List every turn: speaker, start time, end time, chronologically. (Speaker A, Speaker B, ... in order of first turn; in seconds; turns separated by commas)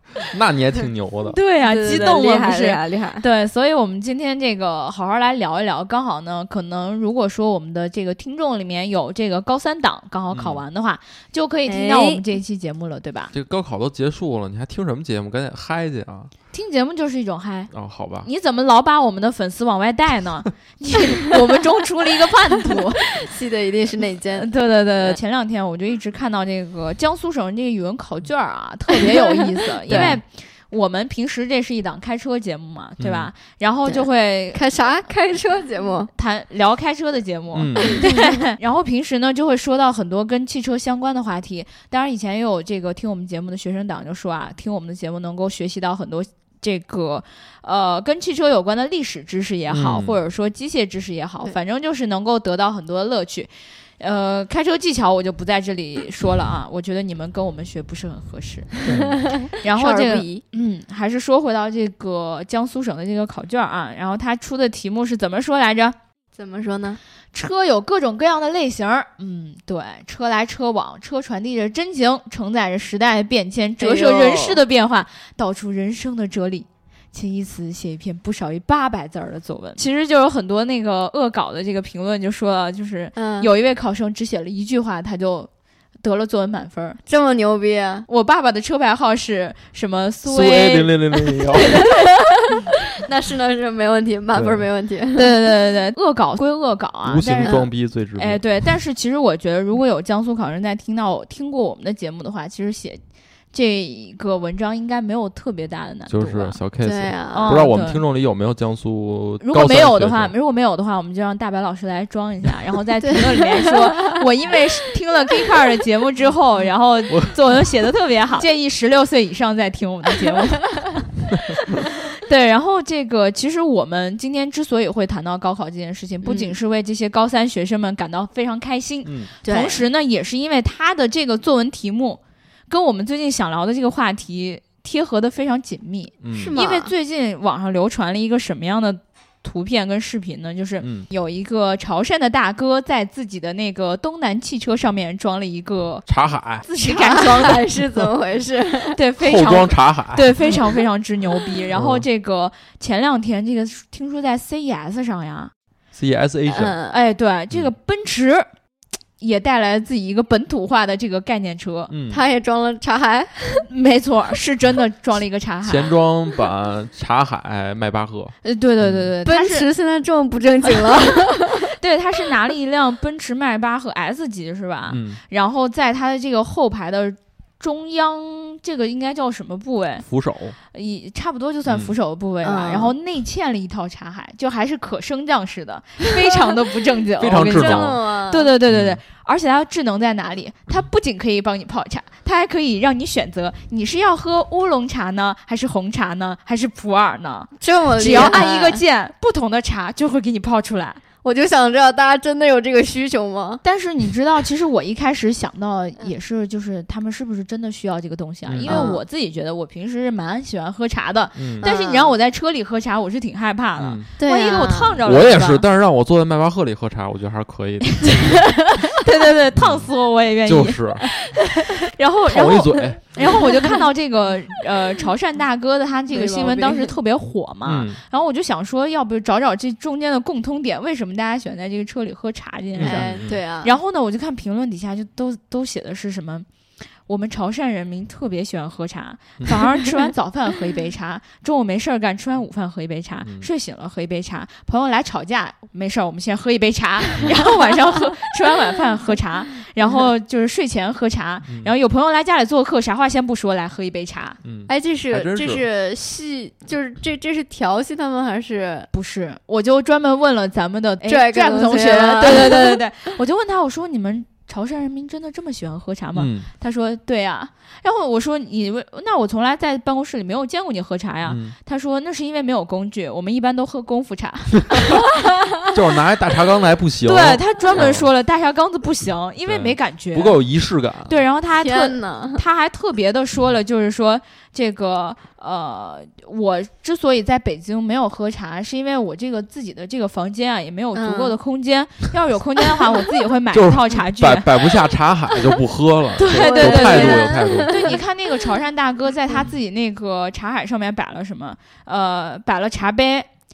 Speaker A: 0.2-1.4, Speaker B: 1.3-13.3, Speaker C: 1.6-3.2, Speaker A: 1.9-2.2, Speaker A: 10.3-10.6, Speaker C: 11.7-12.2, Speaker A: 13.3-16.3, Speaker B: 16.5-17.7, Speaker A: 17.7-18.3, Speaker B: 18.2-23.2, Speaker C: 23.0-24.5, Speaker B: 24.4-34.6, Speaker C: 28.9-30.2, Speaker A: 29.9-30.2, Speaker A: 33.0-33.3, Speaker C: 33.9-36.1, Speaker B: 36.1-58.8, Speaker A: 37.5-38.0, Speaker C: 37.9-38.3, Speaker A: 49.7-50.1, Speaker A: 58.9-59.1, Speaker C: 58.9-60.4, Speaker B: 59.6-65.9, Speaker C: 66.3-67.0, Speaker B: 67.3-85.5, Speaker C: 73.8-74.6, Speaker C: 83.2-83.5, Speaker B: 86.0-87.0, Speaker C: 87.1-88.1, Speaker B: 88.1-91.9, Speaker A: 90.2-91.8, Speaker C: 91.5-95.3, Speaker A: 94.3-94.7, Speaker B: 95.1-97.6, Speaker A: 97.1-98.4, Speaker C: 97.2-97.7, Speaker B: 98.2-103.0, Speaker B: 103.5-106.6, Speaker A: 106.1-110.3, Speaker C: 106.8-107.6, Speaker B: 107.3-108.0, Speaker B: 109.4-121.2, Speaker C: 113.0-114.2, Speaker B: 121.8-146.1, Speaker C: 126.2-126.6, Speaker A: 129.1-129.3, Speaker C: 129.4-129.8, Speaker A: 136.2-136.6, Speaker C: 136.3-136.9, Speaker A: 140.8-141.1, Speaker A: 146.1-146.7, Speaker B: 146.6-147.6, Speaker C: 146.8-149.0, Speaker B: 148.9-155.5, Speaker A: 149.2-150.6, Speaker A: 151.7-152.1, Speaker A: 155.9-156.7, Speaker C: 156.5-157.0, Speaker B: 156.9-158.4, Speaker B: 159.2-161.9, Speaker A: 161.9-162.2, Speaker C: 162.1-163.7, Speaker B: 163.6-165.9, Speaker A: 165.6-169.1, Speaker B: 168.4-169.7, Speaker C: 169.2-171.8, Speaker B: 170.7-171.0, Speaker B: 171.6-180.1, Speaker A: 174.9-175.2, Speaker A: 180.1-180.6, Speaker B: 180.7-201.0, Speaker A: 181.7-181.9, Speaker C: 182.4-182.9, Speaker A: 187.2-188.0, Speaker C: 187.2-188.5, Speaker A: 188.7-189.0, Speaker C: 197.6-198.8, Speaker C: 201.2-203.6, Speaker B: 203.6-215.6, Speaker A: 208.5-208.9, Speaker C: 208.7-209.0, Speaker A: 211.4-211.7, Speaker C: 211.6-212.2, Speaker A: 213.8-214.1, Speaker C: 214.2-215.0, Speaker A: 215.0-218.4, Speaker B: 218.0-236.5, Speaker A: 219.5-219.9, Speaker A: 220.4-221.1, Speaker A: 222.3-223.0, Speaker C: 226.1-226.9, Speaker A: 227.6-228.0, Speaker A: 232.8-233.4, Speaker C: 232.8-233.7, Speaker B: 237.1-254.4, Speaker A: 243.2-243.5, Speaker A: 251.4-251.7, Speaker A: 254.4-255.6, Speaker C: 254.7-258.9, Speaker B: 258.9-275.1, Speaker C: 261.0-262.8, Speaker A: 266.1-266.5, Speaker A: 271.2-271.6, Speaker A: 275.7-278.1, Speaker B: 277.0-280.4, Speaker A: 279.5-281.2, Speaker B: 281.1-294.5, Speaker C: 281.6-282.4, Speaker C: 290.9-291.4, Speaker A: 293.5-298.0, Speaker B: 296.2-303.3, Speaker C: 296.3-298.0